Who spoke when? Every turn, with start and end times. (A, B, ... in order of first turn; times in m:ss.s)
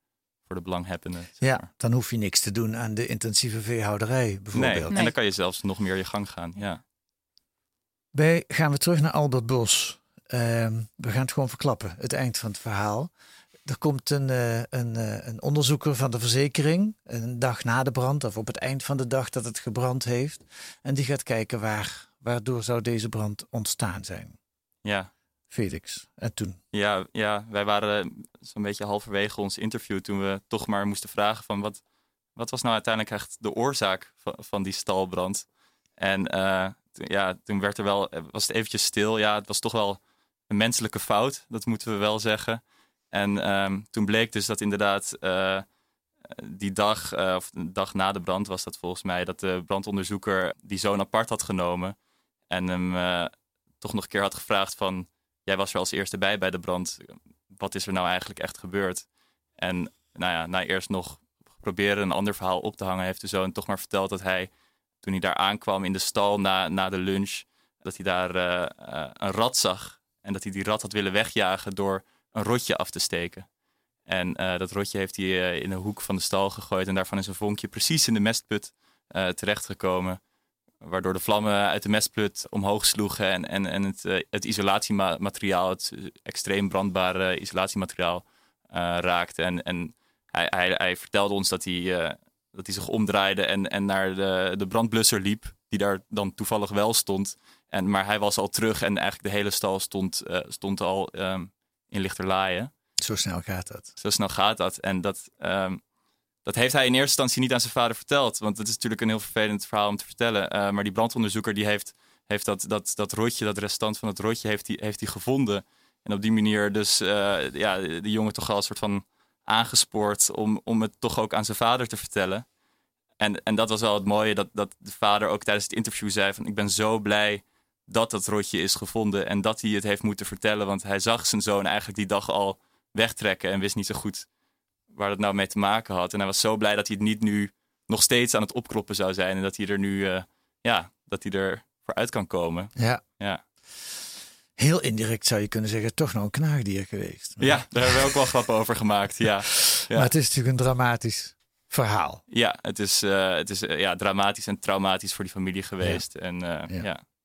0:00.4-0:01.7 A
0:01.4-0:04.9 B
0:04.5-0:06.8 A
0:08.1-0:13.1 B
0:13.6-0:24.4 B
0:24.8-0:25.1 A
0:25.5-0:26.6 B
0:26.7-0:31.8 A
0:32.4-0:35.5 A
0:36.0-0:45.7 A
0:46.2-0:52.0 A
0:52.5-0:59.1 A
0:59.6-1:04.5 A
1:05.0-1:13.5 A
1:14.1-1:20.2 A
1:20.8-1:42.7 A
1:43.0-1:43.9 B
1:44.0-1:45.8 A
1:46.4-2:02.5 A
2:03.2-2:14.3 A
2:14.9-2:23.4 A
2:24.6-2:28.2 B
2:27.4-2:30.1 A
2:29.9-2:32.2 B
2:32.3-2:37.0 A